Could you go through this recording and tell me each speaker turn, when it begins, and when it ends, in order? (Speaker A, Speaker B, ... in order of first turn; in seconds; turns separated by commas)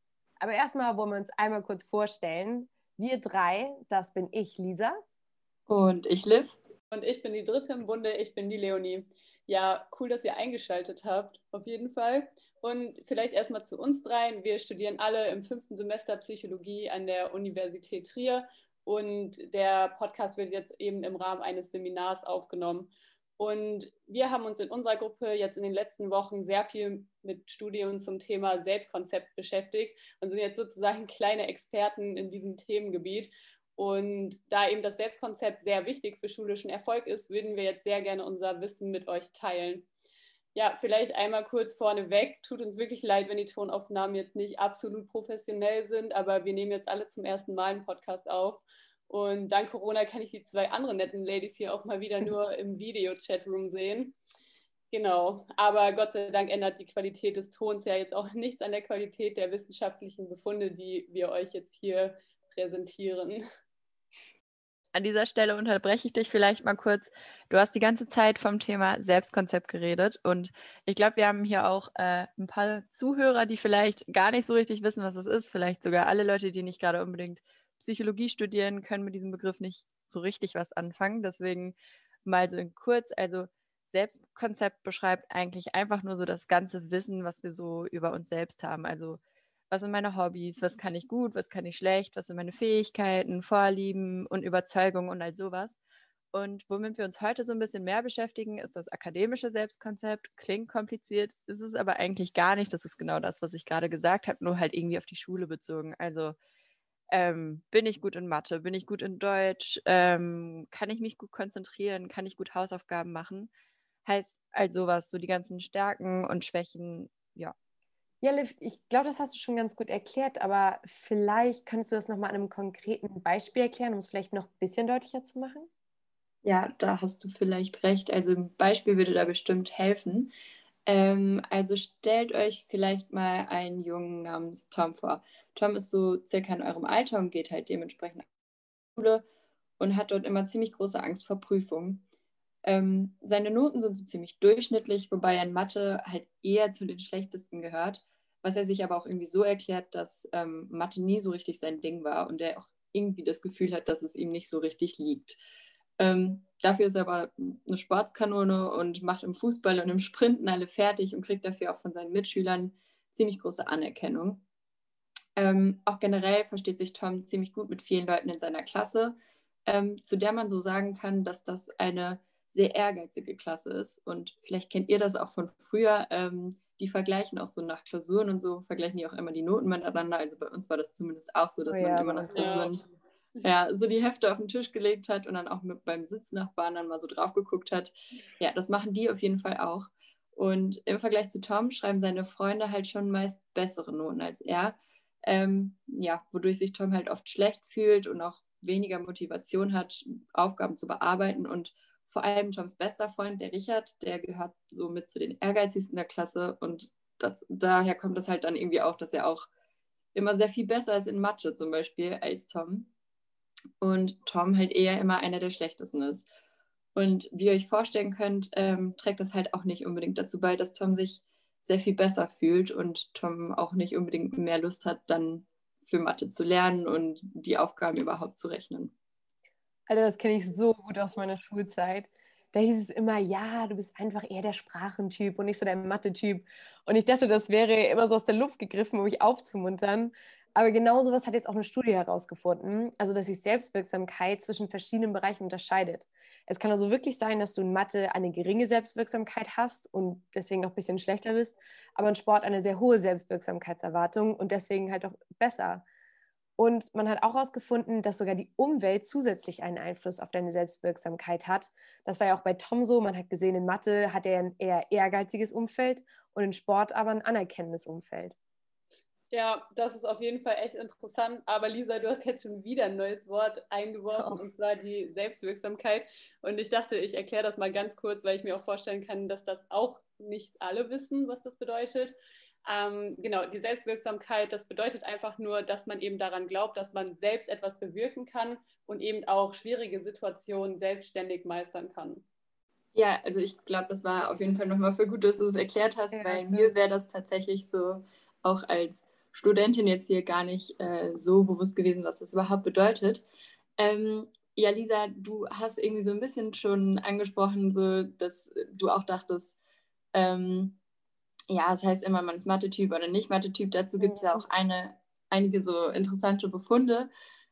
Speaker A: 0.4-5.0, Speaker B: 5.7-6.6, Speaker C: 6.9-39.9, Speaker C: 40.5-54.1, Speaker C: 54.9-63.4, Speaker B: 64.9-95.8, Speaker B: 96.3-106.4, Speaker B: 107.1-113.5, Speaker B: 114.0-117.5, Speaker A: 118.2-125.7, Speaker B: 126.4-130.3, Speaker B: 130.8-138.3, Speaker B: 138.9-139.2, Speaker B: 139.8-142.0, Speaker B: 142.6-155.4, Speaker B: 156.0-164.4, Speaker B: 165.3-182.8, Speaker A: 181.7-182.7, Speaker C: 182.3-182.7, Speaker B: 183.4-209.4, Speaker B: 210.1-212.9, Speaker B: 213.8-216.3, Speaker B: 216.9-228.9, Speaker A: 229.9-255.8, Speaker A: 256.6-268.3, Speaker C: 269.3-292.2, Speaker A: 274.1-274.4, Speaker B: 292.9-303.2, Speaker A: 296.1-296.8, Speaker B: 303.8-309.6, Speaker B: 310.1-310.8, Speaker B: 311.5-317.1, Speaker A: 314.0-314.4